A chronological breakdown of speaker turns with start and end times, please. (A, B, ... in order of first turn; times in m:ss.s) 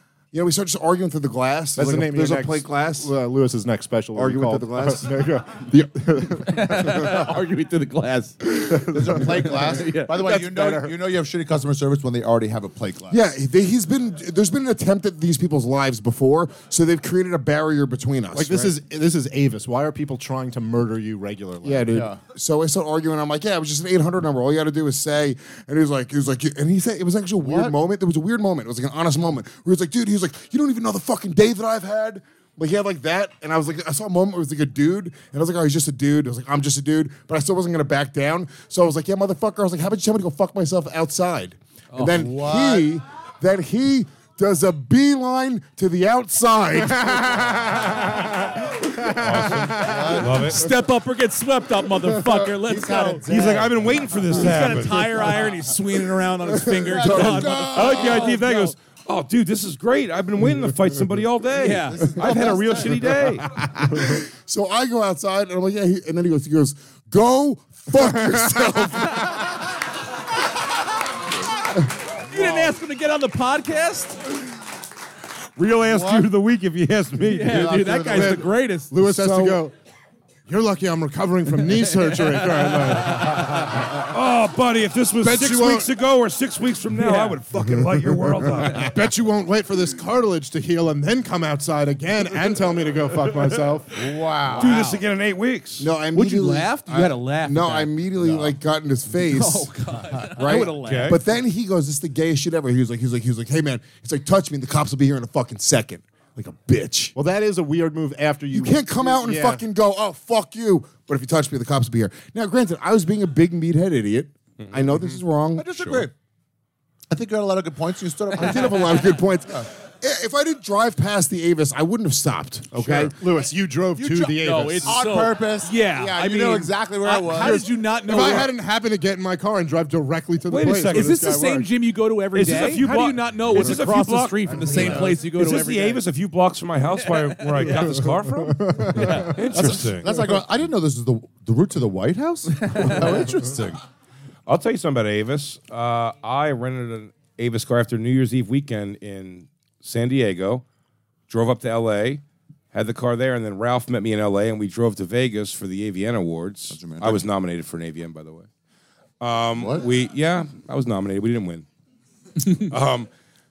0:00.3-0:03.1 A
0:01.8-0:07.1 B
0:04.1-0:05.1 A
0:06.4-0:08.4 C
0:08.4-0:08.8 A
0:08.9-0:13.2 D
0:09.2-0:10.6 C
0:10.2-0:10.9 B
0:13.1-0:18.8 A
0:18.3-0:21.9 B
0:21.6-0:48.2 A
0:21.9-0:22.2 D
0:27.4-0:27.7 D
0:41.9-0:42.2 C
0:42.0-0:42.9 D
0:49.2-0:50.7 E
0:49.8-0:50.6 D
0:50.4-0:53.2 C
0:52.4-0:55.4 D
0:53.3-0:55.4 E
0:54.3-0:58.7 C
0:56.4-0:57.8 A
0:56.6-0:58.4 D
0:57.7-1:03.5 E
1:01.6-1:02.0 C
1:01.8-1:03.1 D
1:03.5-1:09.4 A
1:12.2-1:14.2 C
1:12.4-1:12.7 D
1:15.6-1:17.8 E
1:15.8-1:16.3 D
1:17.3-1:18.9 C
1:17.5-1:18.5 D
1:18.1-1:19.7 B
1:19.0-1:19.6 A
1:20.5-1:23.6 B
1:21.8-1:22.7 C
1:23.8-1:28.9 E
1:25.2-1:25.9 B
1:27.0-1:27.4 C
1:27.7-1:28.7 A
1:28.8-1:33.9 B
1:33.9-1:34.8 D
1:34.5-1:35.0 C
1:34.5-1:35.9 E
1:35.8-1:39.7 A
1:36.1-1:38.4 C
1:39.1-1:41.2 C
1:40.3-1:47.1 A
1:40.8-1:41.2 E
1:47.1-1:49.6 B
1:48.5-1:55.6 A
1:54.6-1:54.9 E
1:55.5-1:56.1 D
1:55.8-1:56.1 E
1:57.1-1:59.0 D
1:58.3-2:03.1 A
2:02.8-2:05.0 B
2:03.9-2:08.5 C
2:04.8-2:08.5 D
2:07.4-2:11.7 B
2:10.5-2:11.2 E
2:10.9-2:16.0 C
2:12.3-2:20.1 E
2:14.6-2:15.2 D
2:17.0-2:18.0 C
2:18.6-2:18.9 B
2:18.9-2:19.4 C
2:19.5-2:23.8 D
2:22.6-2:23.0 C
2:24.4-2:30.6 E
2:31.3-2:32.2 E
2:32.7-2:38.5 E
2:36.7-2:37.2 D
2:39.2-2:41.6 E
2:39.6-2:39.8 D
2:42.5-2:43.1 E